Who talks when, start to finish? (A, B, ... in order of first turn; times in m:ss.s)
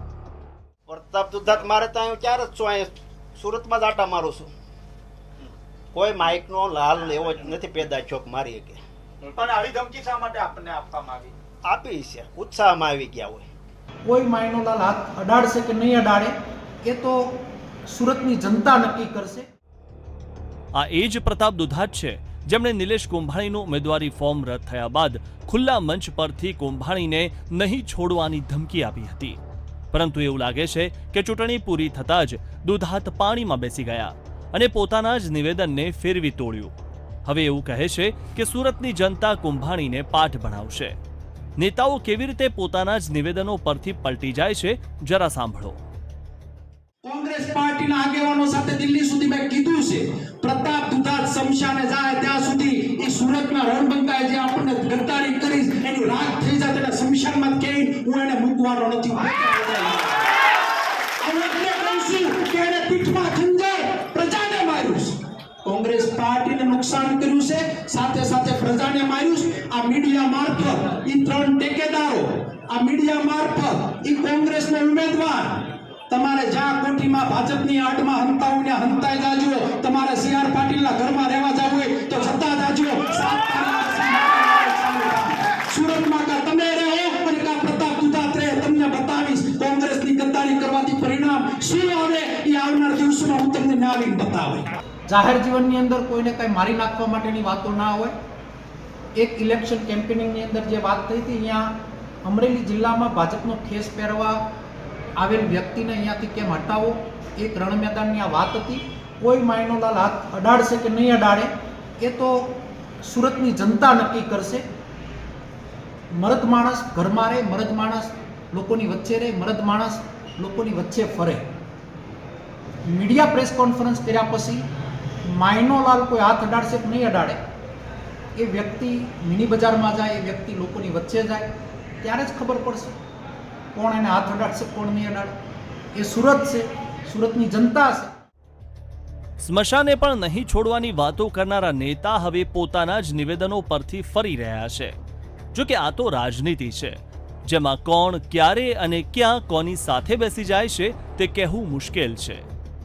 0:00.9-0:04.5 A
0:05.9-0:08.8 A
0:09.2-0:11.3 B
0:11.7-0:13.5 A
0:14.0-0:16.4 C
0:16.9-0:19.5 C
0:20.8-0:29.4 D
0:29.9-0:36.7 D
0:37.2-0:41.0 D
0:41.6-0:45.8 D
0:47.0-1:00.1 E
1:01.2-1:05.1 E
1:05.6-1:15.5 E
1:16.1-1:34.6 E
1:35.1-1:38.1 C
1:39.2-1:44.4 C
1:45.2-1:54.6 C
1:56.2-2:01.4 C
2:02.9-2:04.6 C
2:05.3-2:07.4 C
2:08.4-2:11.5 C
2:12.0-2:13.0 C
2:13.7-2:15.3 C
2:16.0-2:18.1 C
2:19.4-2:24.9 D
2:25.5-2:32.4 D